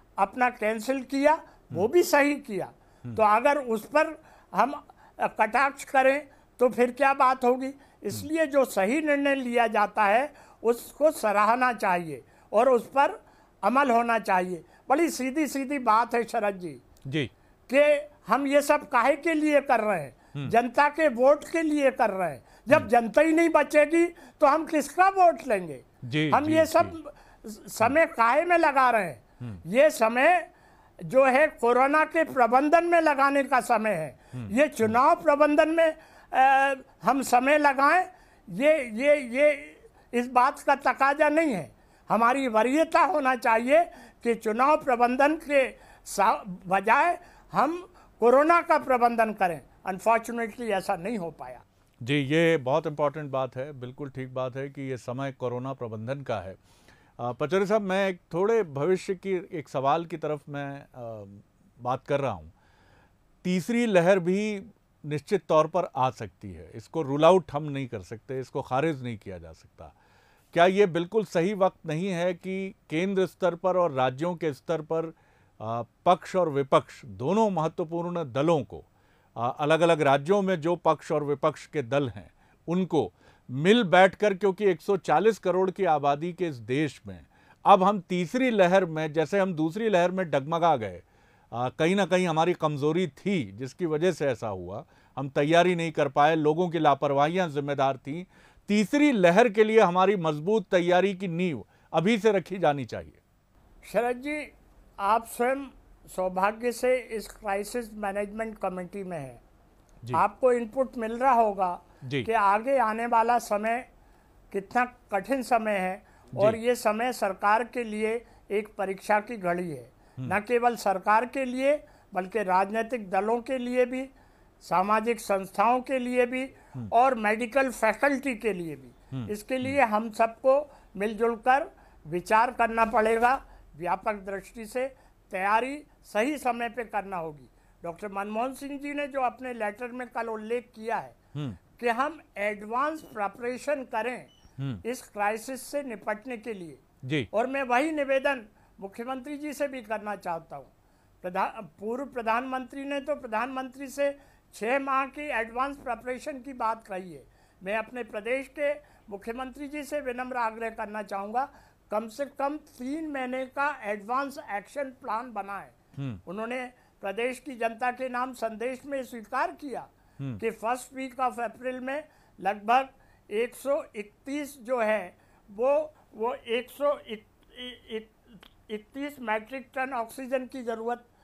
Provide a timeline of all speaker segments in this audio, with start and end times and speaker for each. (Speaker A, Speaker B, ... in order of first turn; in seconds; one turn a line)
Speaker A: 0.2-16.8
Speaker B: 17.1-17.3
Speaker A: 17.7-30.5
Speaker B: 26.0-26.9
Speaker A: 31.0-51.6
Speaker B: 52.0-56.6
Speaker B: 57.2-62.5
Speaker B: 63.4-69.9
Speaker B: 70.5-103.2
Speaker A: 103.8-109.4
Speaker A: 110.1-113.8
Speaker B: 112.0-112.3
Speaker A: 114.5-124.1
Speaker A: 124.6-141.2
Speaker B: 129.1-129.8
Speaker A: 141.8-181.1
Speaker B: 147.0-147.3
Speaker B: 165.9-166.2